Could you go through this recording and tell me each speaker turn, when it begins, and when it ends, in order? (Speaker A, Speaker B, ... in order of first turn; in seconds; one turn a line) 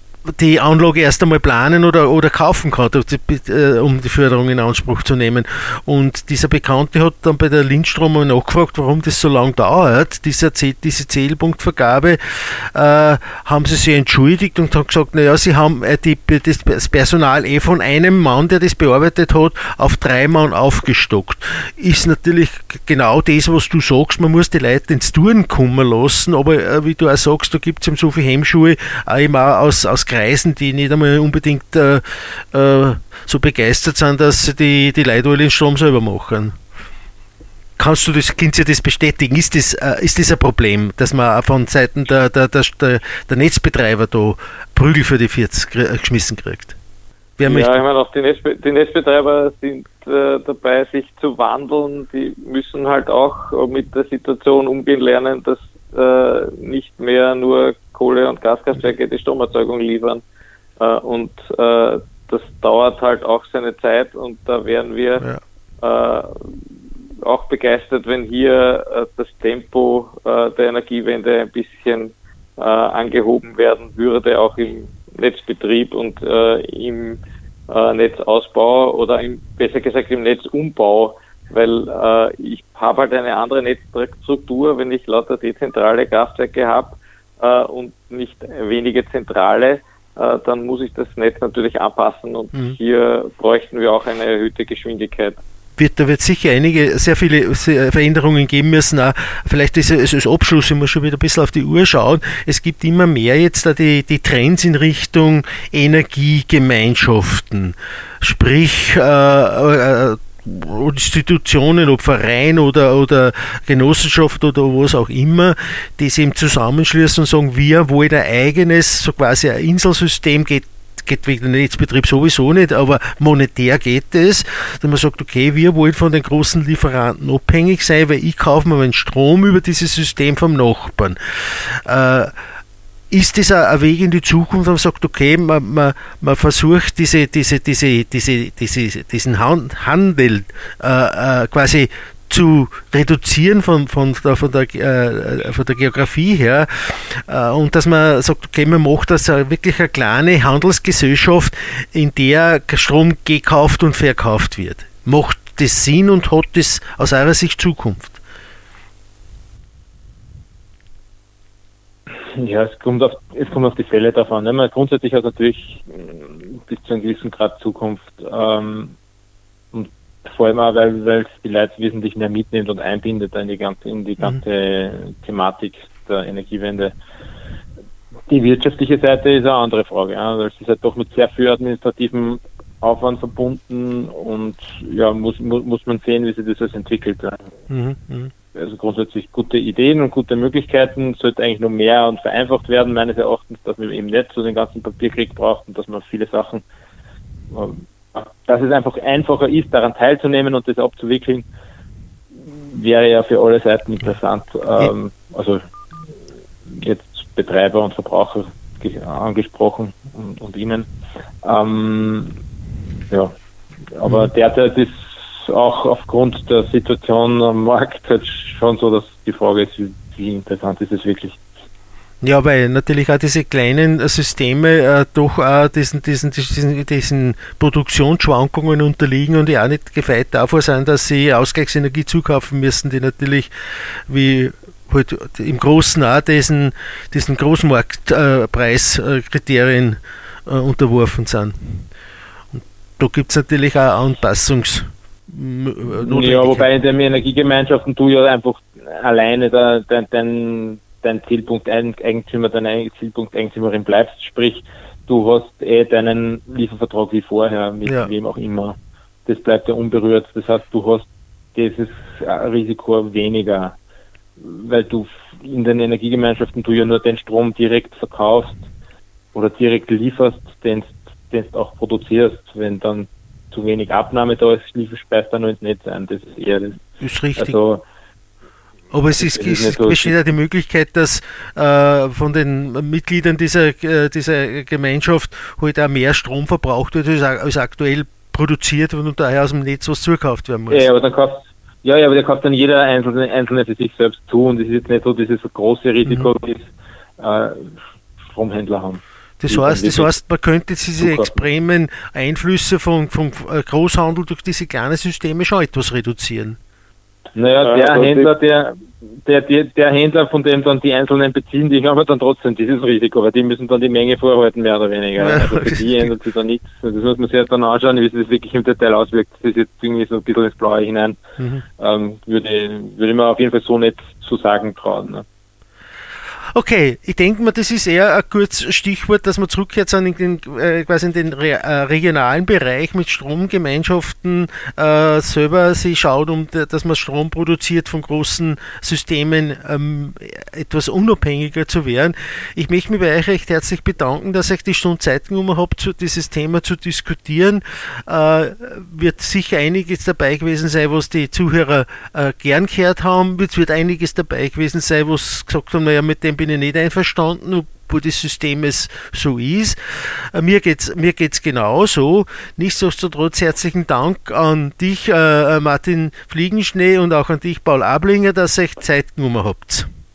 Speaker A: 0.3-36.5
Speaker A: 37.8-46.8
Speaker A: 47.4-47.8
Speaker B: 47.5-60.2
Speaker B: 60.8-65.3
Speaker B: 65.8-95.4
Speaker A: 95.8-132.4
Speaker A: 133.1-158.2
Speaker C: 162.1-168.9
Speaker C: 169.7-176.9
Speaker C: 178.3-187.5
Speaker A: 187.7-188.3
Speaker C: 188.6-196.6
Speaker C: 197.5-201.4
Speaker C: 202.3-205.6
Speaker C: 206.7-210.9
Speaker C: 211.4-212.4
Speaker C: 213.1-213.3
Speaker C: 213.9-221.4
Speaker A: 214.1-214.3
Speaker A: 222.2-241.9
Speaker A: 242.5-246.6
Speaker C: 246.0-263.8
Speaker C: 264.4-268.7
Speaker C: 269.3-276.8
Speaker A: 277.0-277.6
Speaker C: 277.4-277.8
Speaker A: 278.9-290.9
Speaker C: 279.1-280.1
Speaker C: 290.7-297.8
Speaker C: 298.3-300.1
Speaker A: 299.4-306.6
Speaker C: 301.0-301.4
Speaker C: 307.3-321.2
Speaker B: 307.6-308.3
Speaker A: 315.2-316.1
Speaker A: 321.4-321.6
Speaker C: 321.8-325.2
Speaker A: 326.5-369.9